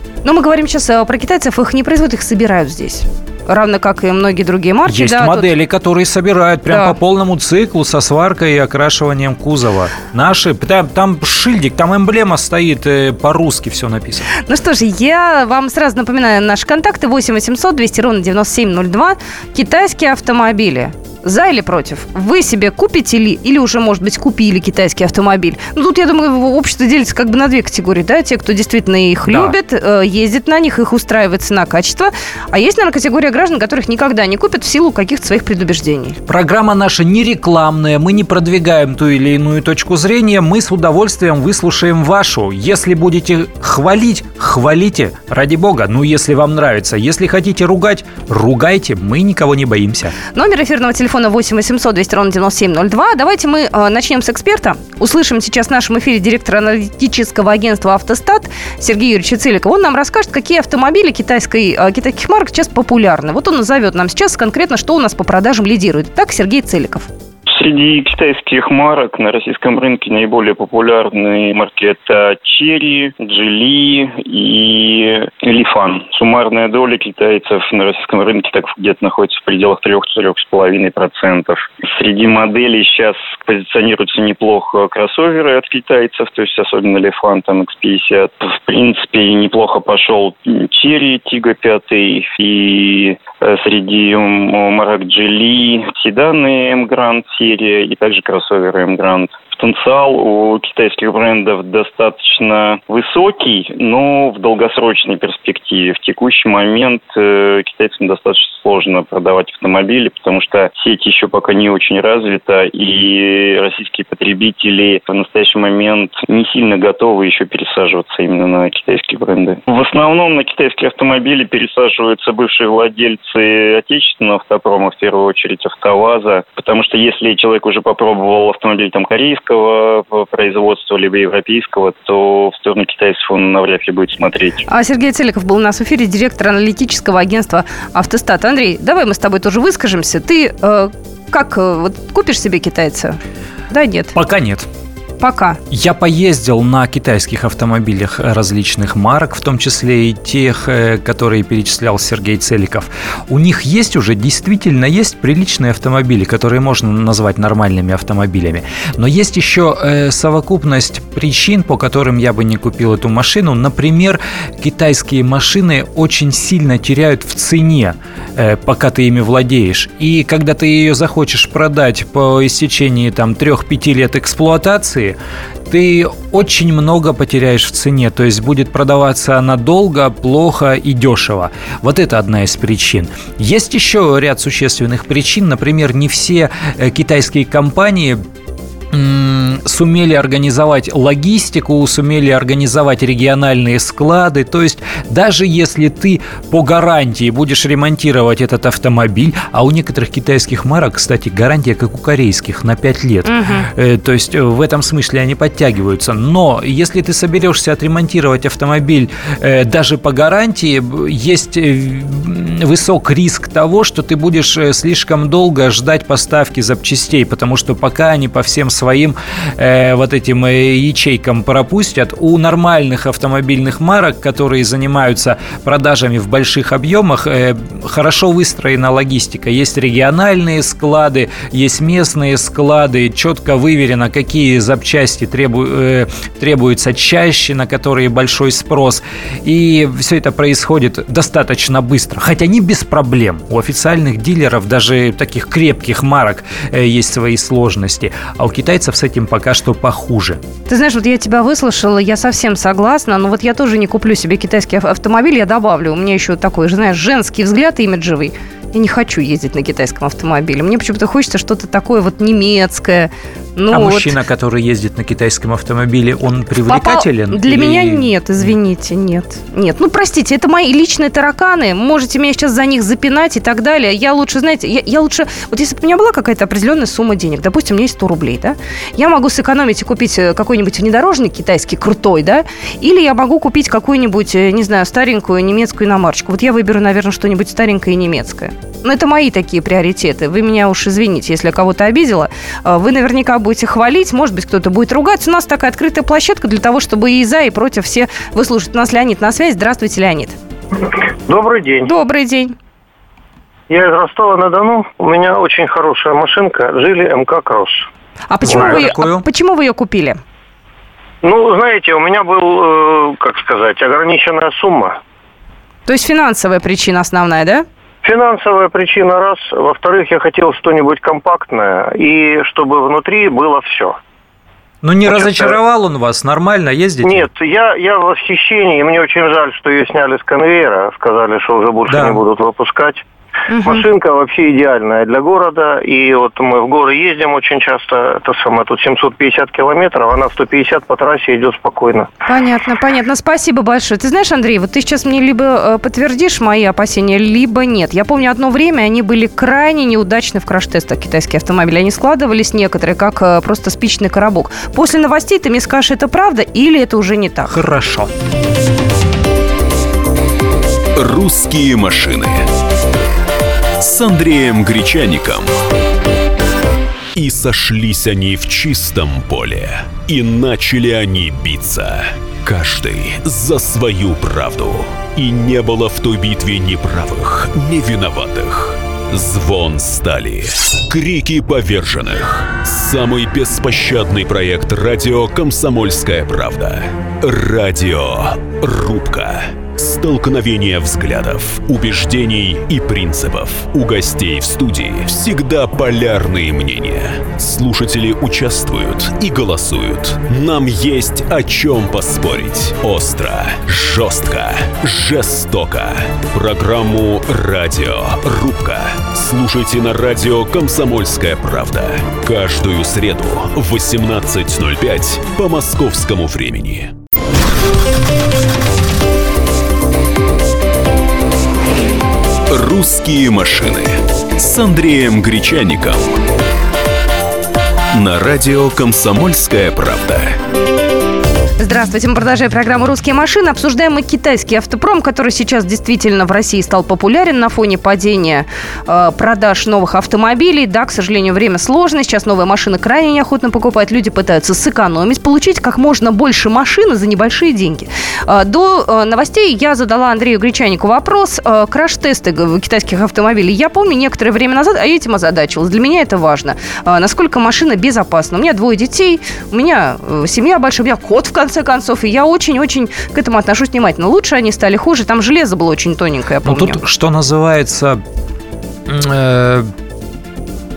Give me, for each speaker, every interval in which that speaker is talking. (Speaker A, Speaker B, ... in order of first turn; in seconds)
Speaker A: 0.2-5.5, 6.7-6.9, 14.4-36.2, 50.3-67.1, 134.7-143.2, 143.7-144.1, 145.2-145.6, 203.3-203.7, 250.7-264.1, 266.7-300.4, 301.8-302.6, 308.3-310.2, 315.9-317.7, 333.5-333.9, 342.3-357.6, 431.6-466.8
Speaker B: 4.8-14.3, 29.2-29.6, 36.3-50.1, 144.1-144.7, 145.7-175.2, 175.7-188.2, 188.9-250.4, 263.7-268.5, 308.4-309.2, 324.8-327.3, 331.9-332.2, 357.5-358.1, 466.4-468.0, 468.9-469.7
Speaker C: 67.5-134.7
Speaker D: 301.3-301.9, 303.7-307.9, 311.2-315.0, 318.0-324.0, 325.1-325.6, 327.0-333.0, 333.6-342.1
Speaker E: 361.0-362.5, 363.8-365.5, 367.1-416.9, 422.5-426.1, 427.9-430.3